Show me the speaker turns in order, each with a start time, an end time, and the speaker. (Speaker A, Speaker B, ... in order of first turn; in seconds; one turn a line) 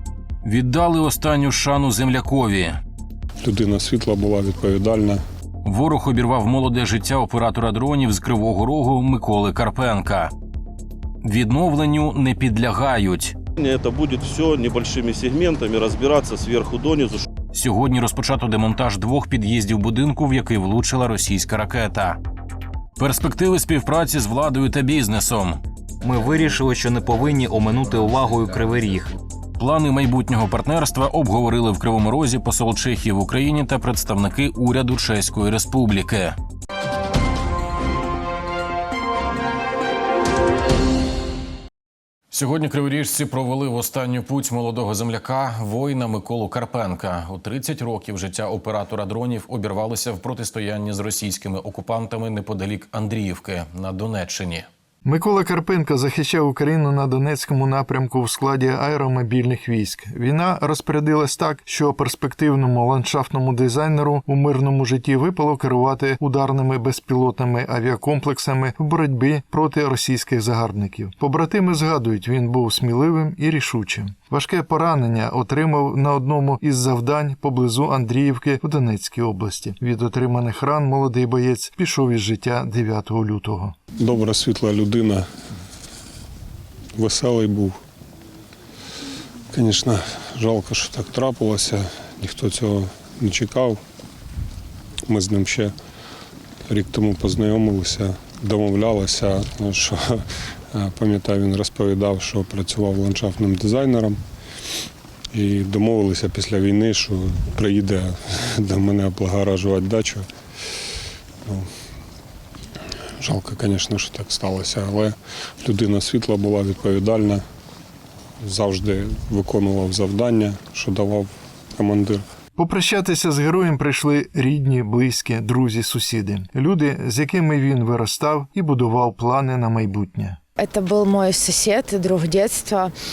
Speaker A: 0.4-2.8
Speaker B: 3.4-5.2
Speaker A: 5.6-10.3
Speaker A: 11.2-13.3
Speaker C: 13.6-17.2
Speaker A: 17.5-22.2
Speaker A: 23.0-25.6
Speaker D: 26.0-29.1
Speaker A: 29.6-36.3
Speaker A: 42.3-54.7
Speaker E: 55.0-83.8
Speaker B: 84.0-85.3
Speaker B: 86.9-87.8
Speaker B: 89.5-93.8
Speaker B: 95.1-95.7
Speaker B: 96.7-104.2
Speaker B: 105.3-110.3
Speaker B: 111.4-111.7
Speaker B: 113.2-117.4
Speaker B: 118.4-122.2
Speaker E: 122.5-130.4
Speaker F: 130.6-132.9